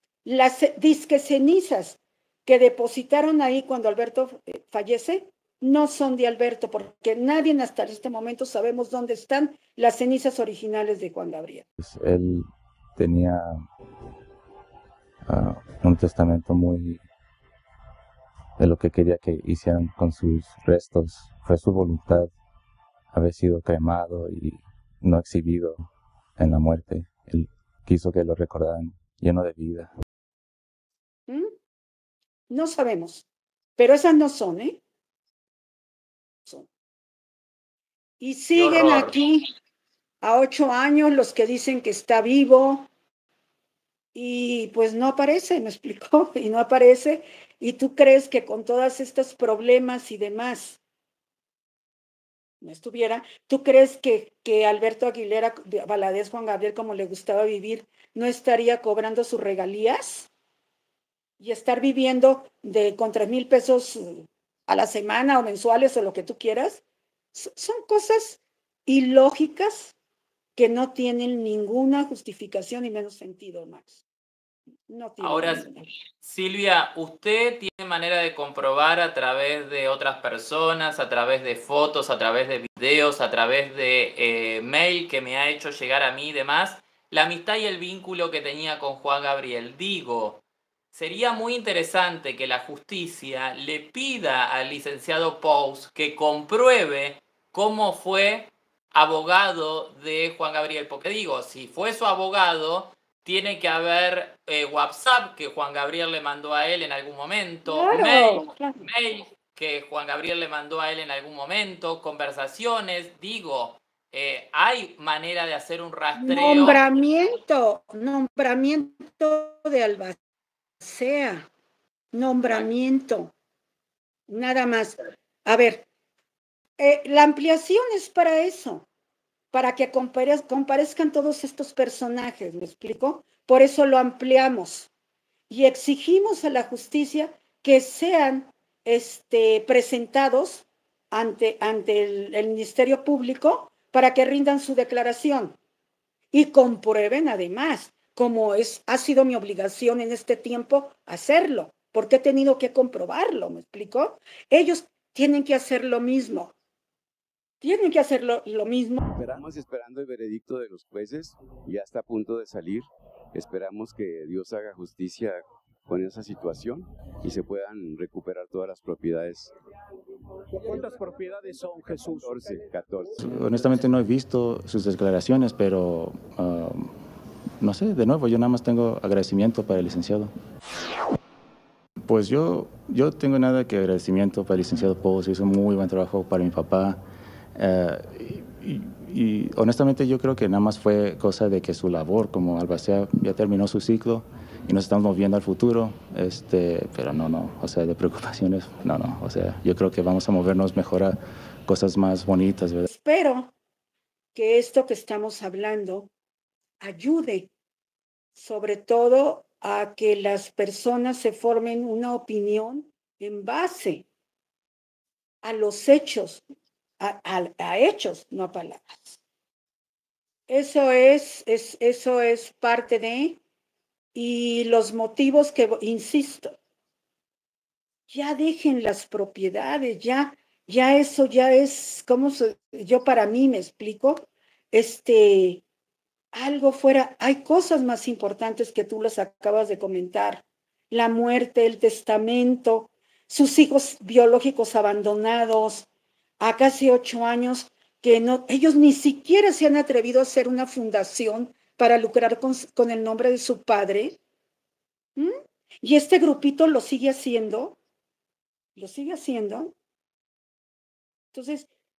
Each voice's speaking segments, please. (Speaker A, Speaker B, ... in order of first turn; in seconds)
Speaker A: 0.2-11.6, 31.3-31.5, 32.5-33.3, 33.8-34.8, 38.2-39.5, 40.2-42.9, 44.1-50.8, 52.6-60.3, 61.4-66.8, 67.3-69.9, 70.6-74.0, 74.9-75.9, 107.7-108.8, 116.2-120.2, 120.8-121.5, 122.1-123.3, 124.3-125.9, 126.8-128.9, 129.5-134.9, 135.5-145.6, 146.3-156.5, 157.6-159.0, 202.9-203.5, 204.3-206.1, 206.8-207.5, 208.3-214.1, 215.4-216.4, 217.0-219.2, 220.5-223.4, 224.1-226.6, 228.1-235.6, 236.3-245.9, 246.4-254.2, 255.2-257.8, 258.8-259.7, 261.3-261.7
Speaker B: 11.8-13.6, 15.2-17.0, 18.6-22.3, 23.1-29.9, 173.2-176.9, 177.6-180.3, 182.1-187.0, 187.6-202.9
Speaker C: 38.5-39.2, 75.2-75.7, 76.2-116.8
Speaker D: 159.2-169.5, 172.1-173.6
Speaker E: 170.5-172.7